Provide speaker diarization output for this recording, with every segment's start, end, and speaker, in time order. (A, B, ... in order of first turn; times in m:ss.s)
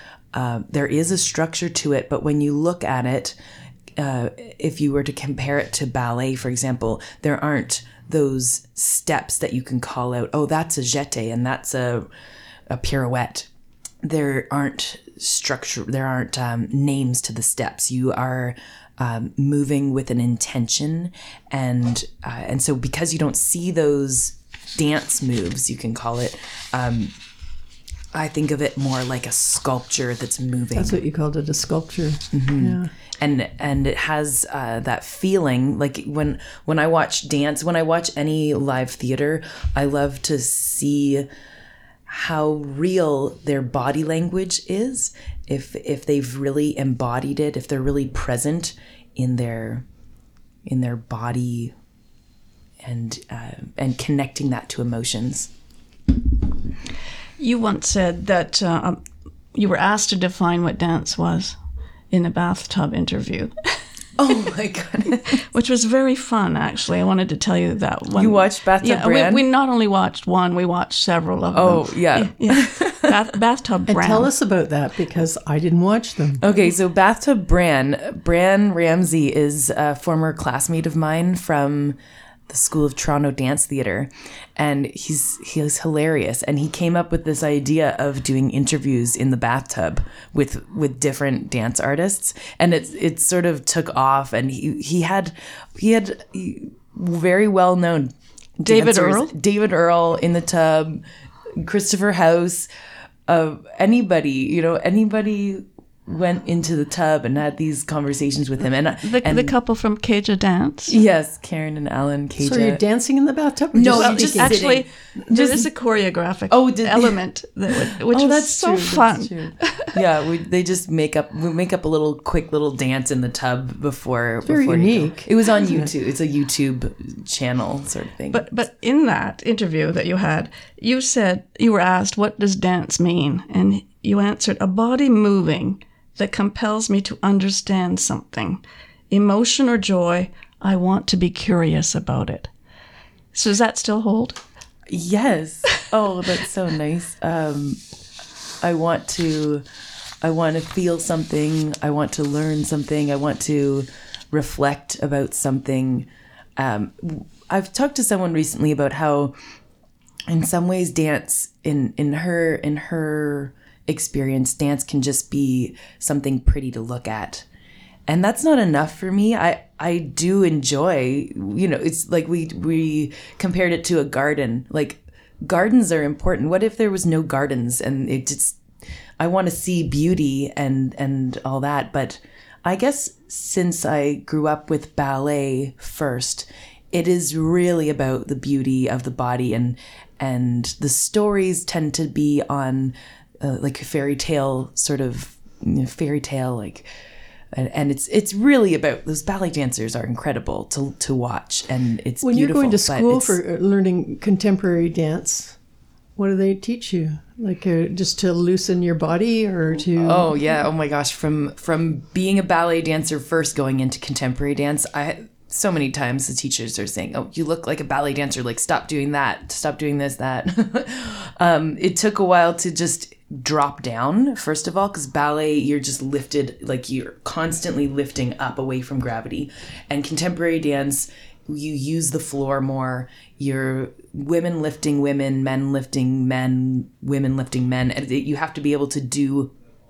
0:00.3-0:03.4 A
0:04.0-0:12.1 A
0:12.7-0:13.5 A
0:14.0-0:27.1 A
0:28.1-0:31.0 A
0:30.7-0:32.9 B
0:32.3-0:41.3 A
0:42.1-0:49.8 A
0:50.6-0:51.7 A
0:52.8-0:55.5 A
0:57.4-0:59.0 C
0:59.5-1:01.6 C
1:02.1-1:03.8 C
1:04.2-1:05.2 A
1:05.2-1:14.3 C
1:08.1-1:09.4 A
1:11.5-1:13.1 A
1:13.9-1:16.4 B
1:16.4-1:22.0 A
1:22.5-1:41.0 A
1:38.6-1:39.3 C
1:41.6-1:42.7 A
1:43.3-1:49.5 A
1:49.0-1:51.0 C
1:50.9-1:52.8 A
1:52.4-1:54.6 B
1:53.7-1:55.7 A
1:53.9-2:00.0 C
1:56.5-1:57.2 A
1:57.7-1:58.8 A
1:58.6-1:59.5 B
1:59.9-2:08.4 A
2:04.5-2:05.9 B
2:08.3-2:22.5 C
2:23.3-2:24.4 C
2:24.9-2:27.8 A
2:28.6-2:29.6 A
2:30.2-2:39.3 A
2:40.3-2:47.5 A
2:48.1-2:58.6 A
2:59.2-3:16.9 A
3:17.5-3:23.4 A
3:22.2-3:25.6 B
3:26.2-3:30.4 B
3:29.9-3:59.5 A